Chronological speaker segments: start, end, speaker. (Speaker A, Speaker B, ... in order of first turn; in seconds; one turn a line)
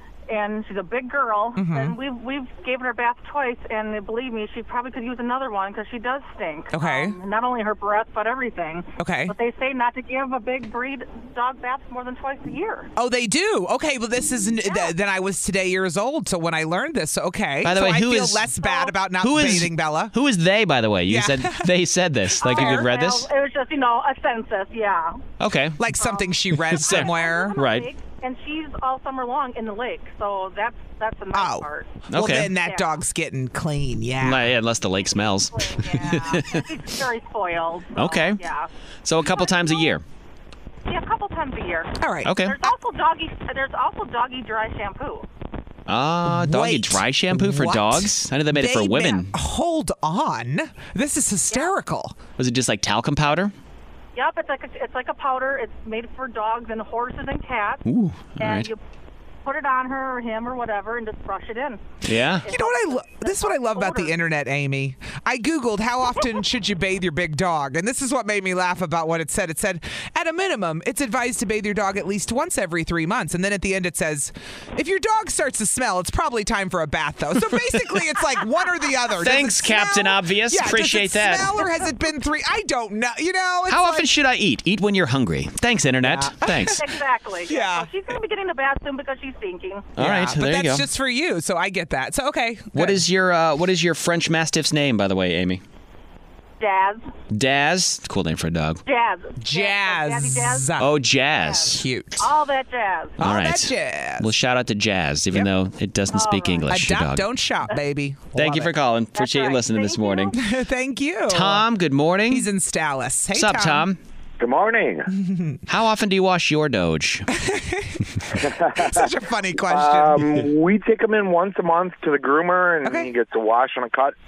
Speaker A: 0.3-12.9
Speaker B: 1.6-1.9
Speaker B: 6.7-7.2
Speaker B: 9.0-9.3
Speaker B: 12.9-20.1
Speaker C: 17.6-18.5
Speaker A: 18.6-18.9
Speaker C: 19.1-23.2
Speaker B: 21.1-21.7
Speaker B: 22.4-22.9
Speaker A: 22.4-25.2
Speaker C: 25.4-25.8
Speaker B: 25.8-27.6
Speaker A: 25.9-33.0
Speaker C: 26.7-27.9
Speaker B: 31.3-34.4
Speaker C: 32.1-32.5
Speaker C: 34.2-36.6
Speaker A: 35.5-38.7
Speaker C: 38.0-38.4
Speaker C: 39.0-40.0
Speaker A: 39.2-40.0
Speaker A: 40.9-45.2
Speaker B: 42.0-42.7
Speaker C: 42.2-42.6
Speaker C: 45.9-49.3
Speaker B: 46.2-52.1
Speaker C: 52.4-53.5
Speaker A: 54.1-57.8
Speaker C: 57.8-58.7
Speaker A: 58.4-58.8
Speaker A: 59.4-64.2
Speaker C: 62.0-62.4
Speaker B: 62.5-84.1
Speaker C: 77.7-78.0
Speaker C: 79.1-81.7
Speaker C: 83.7-86.8
Speaker B: 86.0-86.9
Speaker A: 86.6-89.9
Speaker B: 87.5-87.9
Speaker C: 90.0-90.9
Speaker B: 90.0-93.0
Speaker C: 92.7-95.6
Speaker A: 96.6-97.0
Speaker C: 97.3-98.8
Speaker A: 98.8-103.2
Speaker B: 99.4-101.0
Speaker C: 100.8-101.8
Speaker B: 101.6-102.2
Speaker B: 103.2-104.3
Speaker C: 103.2-107.3
Speaker A: 106.1-106.7
Speaker B: 106.7-108.7
Speaker C: 108.3-110.3
Speaker A: 109.1-110.3
Speaker B: 110.3-111.7
Speaker C: 111.3-112.5
Speaker B: 112.3-113.9
Speaker C: 113.3-114.0
Speaker D: 114.4-115.1
Speaker B: 115.1-115.6
Speaker C: 115.7-117.3
Speaker B: 117.3-120.4
Speaker D: 118.4-119.0
Speaker D: 119.7-124.1
Speaker B: 122.8-123.1